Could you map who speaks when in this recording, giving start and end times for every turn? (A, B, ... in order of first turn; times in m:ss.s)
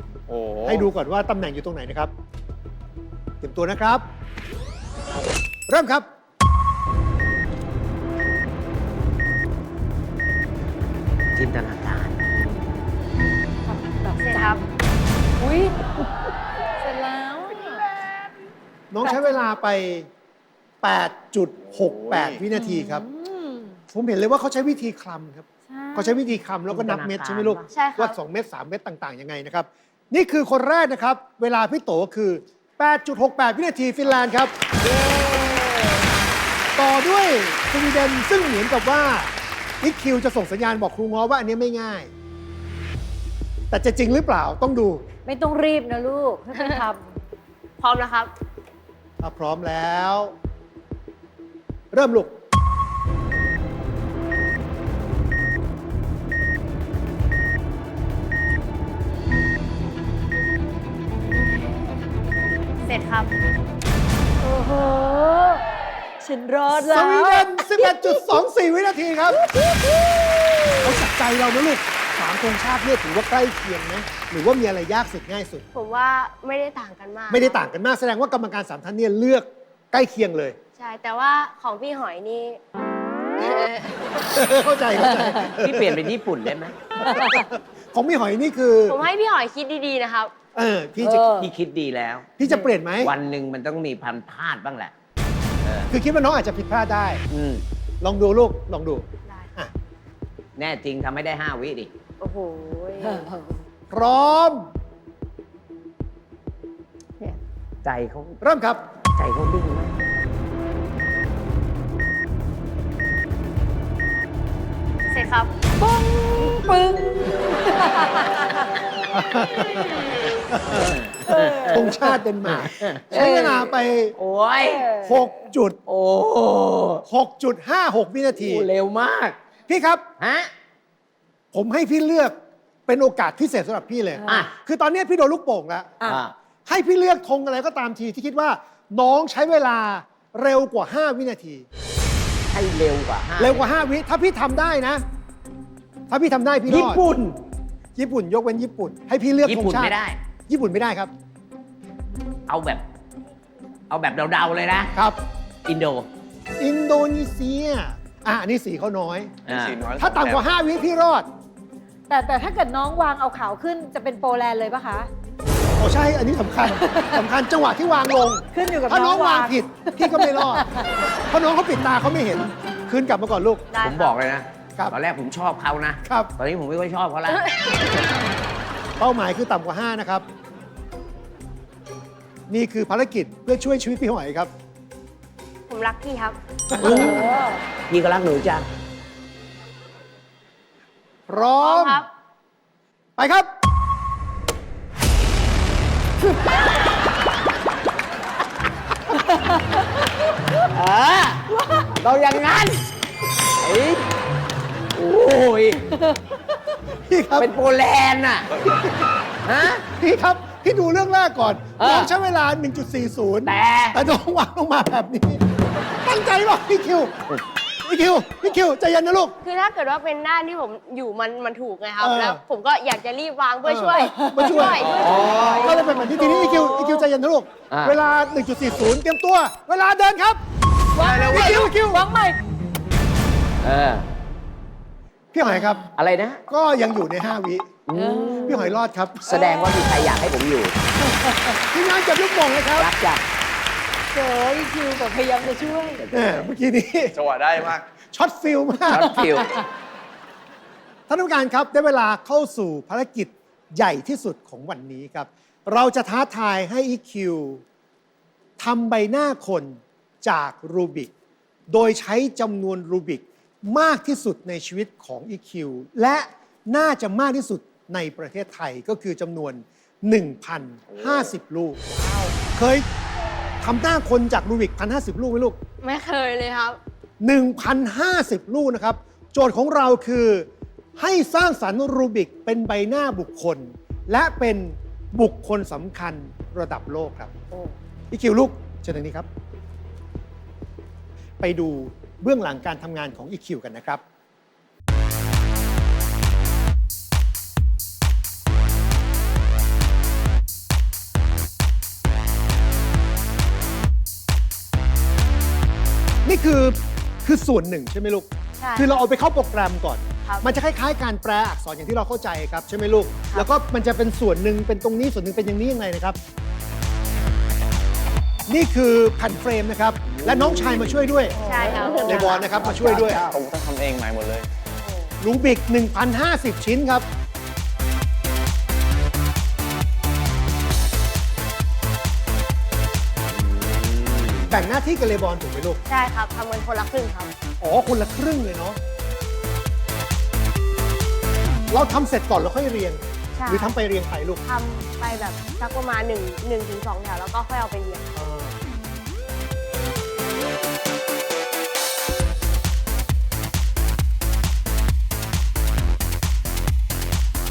0:00.3-0:00.9 A
0:00.6-0:02.1 B
0:03.4-0:04.0 B
0:05.7-0:06.1 B
0:11.3-0:12.2 C
0:13.6-0:14.7 D
0:14.2-0:14.6 E
0:15.4-0:15.9 D
0:16.8-0:18.0 D
0:18.9-0:20.1 B
0:19.0-0:19.4 D
0:20.8-0:23.0 B
0:21.7-0:22.4 A
0:22.5-0:23.8 D
0:23.9-0:34.5 B
0:25.7-0:26.2 D
0:26.7-0:27.7 C
0:27.7-0:28.2 E
0:36.8-0:42.1 B
0:43.7-0:45.1 B
0:45.2-0:47.1 D
0:47.8-0:48.3 E
0:49.2-0:50.3 B
0:51.9-0:52.4 B
1:02.8-1:03.3 E
1:04.4-1:05.6 D
1:06.2-1:08.3 D
1:06.7-1:09.4 B
1:10.8-1:15.6 B
1:15.7-1:17.6 E
1:17.3-1:20.6 B
1:20.8-1:22.6 E
1:23.4-1:24.0 E
1:24.3-1:26.1 B
1:25.0-1:25.3 D
1:25.4-1:26.8 C
1:27.0-1:29.0 B
1:27.0-1:27.5 D
1:28.9-1:30.3 E
1:30.5-1:31.3 B
1:31.0-1:31.5 D
1:31.2-1:32.3 C
1:32.4-1:33.1 B
1:32.4-1:32.7 D
1:33.0-1:34.9 C
1:35.6-1:35.9 C
1:35.9-1:37.2 B
1:37.3-1:37.6 C
1:38.0-1:39.7 B
1:40.6-1:41.9 C
1:42.2-1:43.3 E
1:43.0-1:43.6 D
1:43.9-1:44.7 B
1:47.2-1:48.4 C
1:48.4-1:48.8 B
1:49.2-1:50.0 C
1:55.1-1:55.5 E
1:55.8-1:58.7 D
1:59.1-2:04.1 B
2:00.7-2:03.6 C
2:01.3-2:01.8 D
2:03.1-2:03.6 D
2:04.2-2:04.9 C
2:04.6-2:05.2 D
2:05.0-2:05.8 B
2:05.9-2:07.0 C
2:07.1-2:08.7 B
2:08.4-2:09.4 C
2:09.7-2:10.0 B
2:10.2-2:10.5 C
2:11.5-2:12.3 B
2:12.9-2:15.9 B
2:14.2-2:14.5 D
2:14.3-2:14.5 C
2:16.0-2:16.3 C
2:16.7-2:21.7 B
2:22.5-2:23.6 C
2:23.4-2:25.0 B
2:26.1-2:27.0 B
2:26.7-2:27.4 C
2:28.0-2:30.0 B
2:29.4-2:30.2 C
2:30.5-2:31.1 B
2:32.5-2:32.8 C
2:33.9-2:34.9 C
2:34.9-2:35.2 B
2:35.6-2:36.1 C
2:36.6-2:39.3 B
2:39.4-2:40.5 A
2:39.5-2:39.7 C
2:40.0-2:41.3 B
2:42.1-2:45.1 D
2:45.8-2:50.6 B
2:46.8-2:47.2 D
2:48.5-2:50.8 D
2:51.3-2:53.6 B
2:53.7-2:54.1 E
2:53.8-2:57.4 C
2:59.0-3:00.2 B
3:02.5-3:04.5 B
3:05.7-3:06.4 E
3:06.7-3:07.2 B
3:06.8-3:07.4 C
3:06.8-3:07.6 D
3:07.9-3:08.6 C
3:11.3-3:12.0 B
3:11.6-3:12.1 E
3:13.2-3:13.5 B
3:19.1-3:20.0 D
3:20.7-3:22.8 C
3:21.6-3:21.9 D
3:23.6-3:24.0 C
3:24.9-3:25.9 C
3:27.1-3:27.5 B
3:27.4-3:28.6 C
3:29.4-3:29.8 C
3:29.8-3:35.4 B
3:31.8-3:32.1 C
3:33.4-3:34.0 C
3:36.0-3:37.2 B
3:37.8-3:39.4 B
3:39.4-3:45.0 E
3:42.0-3:42.4 B
3:43.6-3:50.4 B
3:43.9-3:47.0 D
3:44.8-3:45.7 A
3:47.7-3:48.0 C
3:50.9-3:52.4 D
3:51.0-3:51.4 A
3:51.2-3:52.0 B
3:53.6-3:54.1 C
3:55.3-3:55.8 B
3:55.4-3:55.8 D
3:55.9-3:56.4 C
3:56.5-3:57.8 B
3:57.9-4:00.7 C
3:57.9-4:00.3 D
3:58.4-3:59.3 B
4:01.1-4:01.6 D
4:01.7-4:02.9 B
4:02.8-4:03.2 C
4:04.1-4:06.0 D
4:05.4-4:06.5 C
4:06.1-4:09.3 B
4:07.1-4:07.9 A
4:08.9-4:09.6 C
4:11.1-4:17.6 B
4:18.6-4:21.1 B
4:21.7-4:31.8 B
4:30.9-4:31.3 A
4:32.5-4:32.8 B
4:33.6-4:35.6 B
4:35.8-4:36.8 E
4:37.2-4:47.3 B
4:48.1-4:49.3 B
4:51.4-4:54.0 B
5:06.2-5:16.2 B
5:08.6-5:09.0 E
5:18.5-5:21.3 B
5:20.1-5:23.3 C
5:21.4-5:22.4 E
5:22.0-5:23.2 B
5:23.1-5:24.4 A
5:25.2-5:27.0 B
5:33.3-5:34.6 C
5:34.5-5:35.8 B
5:35.9-5:37.3 E
5:37.6-5:38.8 B
5:41.7-5:44.4 B
5:43.4-5:43.8 E
5:44.4-5:48.0 E
5:48.1-5:48.6 B